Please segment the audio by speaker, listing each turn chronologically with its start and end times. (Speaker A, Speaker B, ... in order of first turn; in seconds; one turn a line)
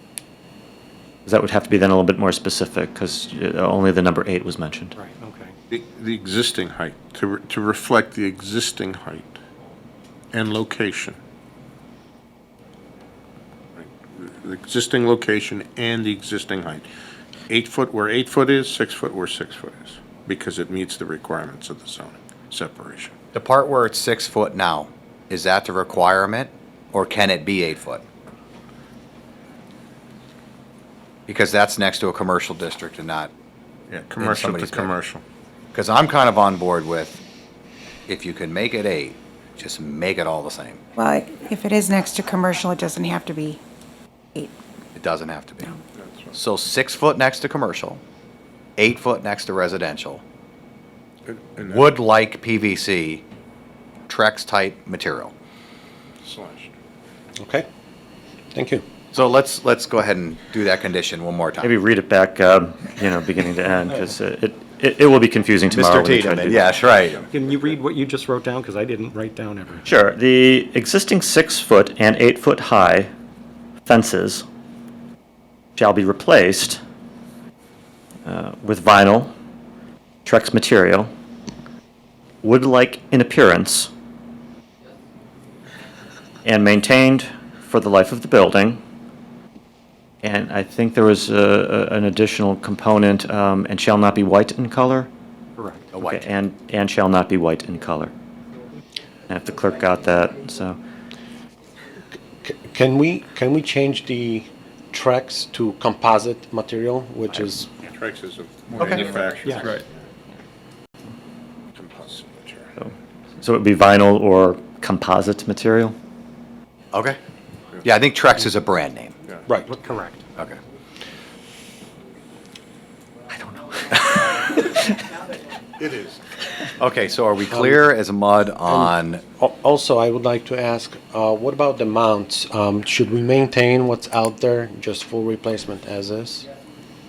Speaker A: 1.2-4.9
Speaker B: 5.0-5.5
Speaker C: 5.7-9.4
Speaker C: 10.3-11.2
Speaker C: 13.8-16.9
Speaker C: 17.5-23.1
Speaker D: 23.3-28.0
Speaker D: 31.3-33.3
Speaker C: 33.9-35.2
Speaker D: 34.2-34.9
Speaker D: 35.7-37.2
Speaker D: 38.1-40.8
Speaker E: 41.0-43.6
Speaker D: 44.9-45.8
Speaker C: 46.0-46.3
Speaker D: 46.3-48.0
Speaker D: 48.8-50.2
Speaker C: 51.2-51.9
Speaker D: 51.6-53.2
Speaker D: 54.1-55.3
Speaker C: 56.2-56.7
Speaker F: 57.4-57.6
Speaker F: 58.5-58.8
Speaker D: 59.1-61.7
Speaker A: 61.6-66.7
Speaker D: 65.7-67.2
Speaker B: 67.3-69.9
Speaker A: 69.8-73.1
Speaker A: 73.8-74.4
Speaker A: 75.8-76.8
Speaker A: 78.2-79.3
Speaker A: 80.2-81.1
Speaker A: 82.4-83.9
Speaker A: 86.4-88.8
Speaker A: 90.2-95.1
Speaker B: 95.6-95.9
Speaker D: 95.9-96.2
Speaker A: 96.0-98.1
Speaker A: 99.3-100.8
Speaker F: 102.4-107.7
Speaker C: 107.8-109.9
Speaker D: 108.8-109.1
Speaker B: 109.4-109.8
Speaker C: 111.7-112.8
Speaker A: 112.8-116.0
Speaker D: 116.9-117.2
Speaker D: 117.8-119.1
Speaker B: 119.7-120.2
Speaker A: 123.3-124.9
Speaker C: 125.8-126.2
Speaker D: 126.8-129.2
Speaker F: 127.5-127.9
Speaker F: 128.7-136.5